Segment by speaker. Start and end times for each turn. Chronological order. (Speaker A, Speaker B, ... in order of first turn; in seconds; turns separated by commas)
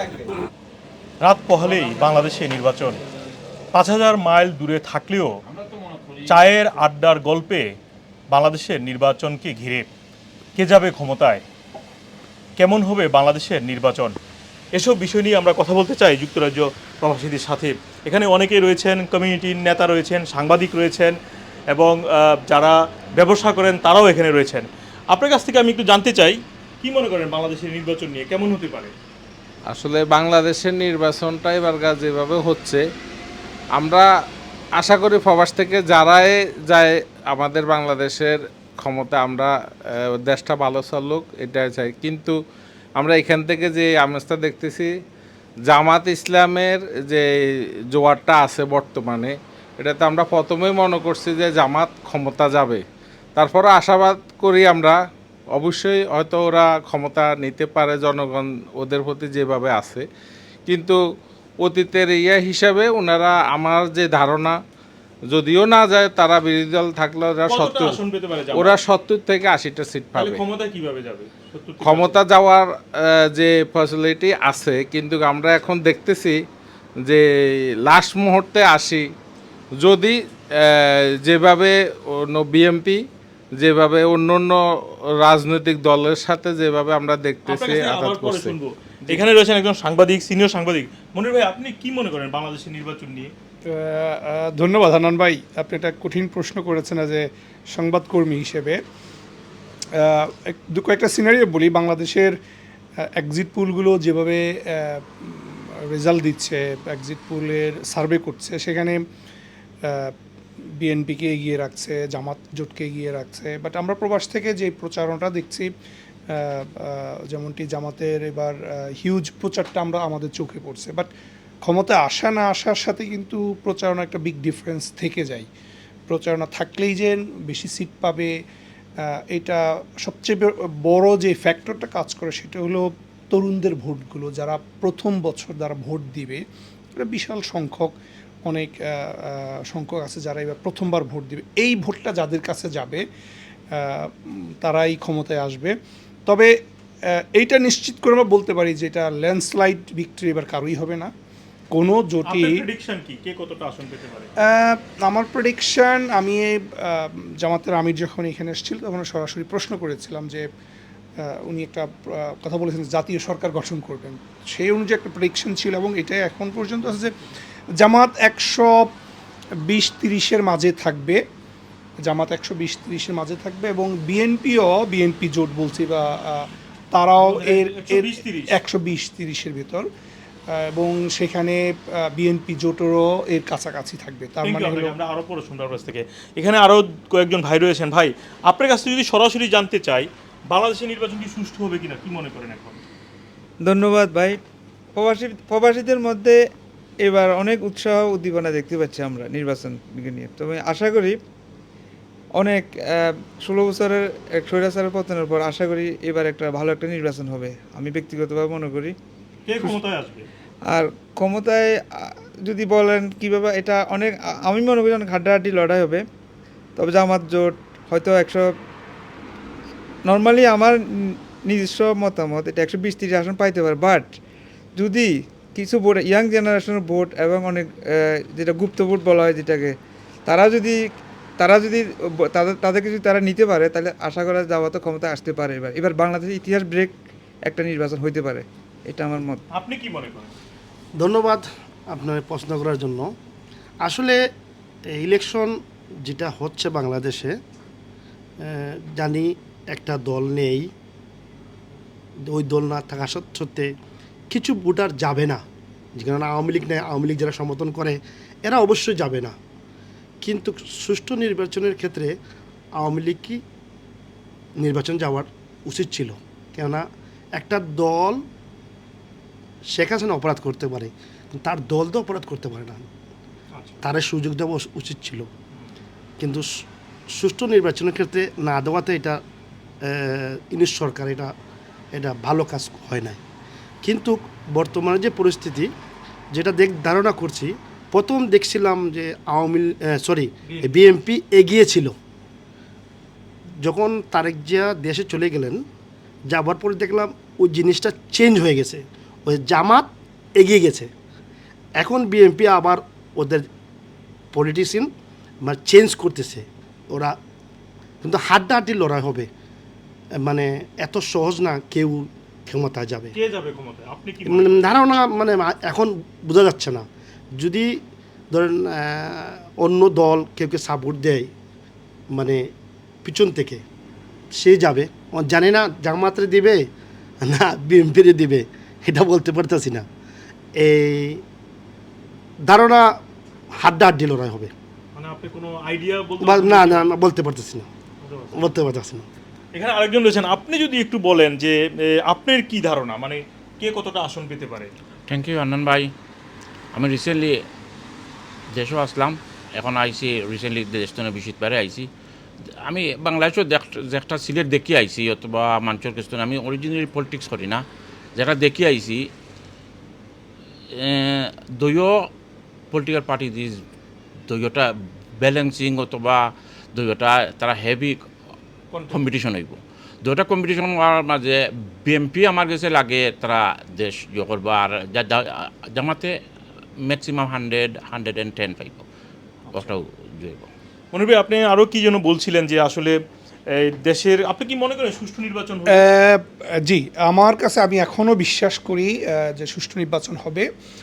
Speaker A: 1.2-3.0, Speaker A: 3.7-5.4, Speaker B: 5.6-6.2, Speaker A: 6.2-7.7, Speaker A: 8.3-9.8, Speaker A: 10.6-11.4, Speaker A: 12.6-14.1, Speaker A: 14.7-21.1, Speaker A: 21.7-28.9, Speaker C: 29.7-32.8, Speaker C: 33.8-34.1, Speaker C: 34.8-39.5, Speaker C: 40.2-42.3, Speaker C: 43.0-44.9, Speaker C: 45.7-47.2, Speaker C: 47.9-52.8, Speaker C: 53.4-55.0, Speaker C: 55.5-60.0, Speaker C: 60.7-61.0, Speaker C: 61.6-64.5, Speaker C: 65.3-68.0, Speaker A: 67.5-68.8, Speaker C: 68.5-70.4, Speaker A: 70.1-72.2, Speaker C: 71.8-76.3, Speaker C: 77.8-79.0, Speaker C: 79.8-83.0, Speaker C: 83.6-84.6, Speaker C: 85.2-88.5, Speaker A: 87.5-93.3, Speaker D: 93.7-98.8, Speaker D: 100.0-102.3, Speaker D: 103.2-109.0, Speaker D: 109.8-110.1, Speaker D: 110.8-115.7, Speaker D: 116.3-121.1, Speaker D: 121.6-125.5, Speaker D: 126.1-128.3, Speaker D: 129.1-136.4, Speaker D: 137.0-137.9, Speaker D: 138.4-143.0, Speaker D: 143.7-145.7, Speaker D: 146.3-146.5, Speaker D: 147.1-151.1, Speaker D: 151.7-152.6, Speaker A: 152.2-154.3, Speaker D: 154.4-160.4, Speaker D: 161.2-167.1, Speaker D: 167.8-168.9, Speaker D: 169.7-171.2, Speaker D: 172.0-179.9, Speaker A: 177.2-178.5, Speaker D: 180.5-184.9, Speaker A: 184.4-192.8, Speaker E: 193.6-194.4, Speaker E: 195.0-196.4, Speaker E: 197.0-201.2, Speaker E: 202.4-208.9, Speaker A: 209.4-210.2, Speaker E: 210.7-216.0, Speaker E: 216.8-218.5, Speaker E: 220.0-224.1, Speaker E: 224.8-229.7, Speaker E: 230.2-230.8, Speaker E: 231.4-236.9, Speaker E: 237.5-239.4, Speaker A: 239.5-240.3, Speaker F: 241.0-243.1, Speaker F: 243.8-244.2, Speaker F: 244.9-247.3, Speaker F: 248.4-250.7, Speaker F: 252.2-253.7, Speaker F: 254.3-255.4, Speaker F: 255.9-259.3, Speaker F: 260.2-262.1, Speaker F: 262.8-263.4, Speaker F: 264.6-266.8, Speaker F: 267.4-268.2, Speaker F: 269.7-272.9, Speaker A: 273.5-273.8, Speaker F: 273.8-275.3, Speaker F: 276.2-276.4, Speaker F: 277.1-279.2, Speaker F: 279.8-281.3, Speaker F: 281.9-283.2, Speaker F: 283.8-285.7, Speaker F: 286.3-291.9, Speaker A: 290.5-291.0, Speaker F: 293.6-295.6, Speaker F: 296.3-300.9, Speaker F: 301.8-303.4, Speaker F: 304.3-304.9, Speaker F: 305.4-307.2, Speaker F: 308.0-309.3, Speaker F: 310.2-313.1, Speaker A: 313.1-314.9, Speaker F: 314.2-316.8, Speaker F: 317.4-317.7, Speaker F: 318.3-321.3, Speaker F: 322.1-322.4, Speaker F: 323.0-323.6, Speaker F: 324.3-326.7, Speaker F: 327.2-329.8, Speaker F: 330.6-331.2, Speaker F: 332.4-332.9, Speaker F: 333.5-334.5, Speaker A: 334.9-336.9, Speaker F: 336.2-337.7, Speaker A: 338.0-338.4, Speaker F: 338.3-339.1, Speaker A: 339.5-344.7, Speaker B: 345.1-345.9, Speaker B: 346.7-347.4, Speaker B: 348.5-351.9, Speaker B: 352.6-357.6, Speaker B: 358.1-359.1, Speaker B: 360.8-362.1, Speaker B: 362.7-363.6, Speaker B: 364.3-368.0, Speaker A: 368.7-369.1, Speaker B: 368.9-376.1, Speaker B: 376.8-378.8, Speaker B: 379.5-380.5, Speaker A: 380.9-383.0, Speaker A: 383.6-385.9, Speaker D: 385.7-390.5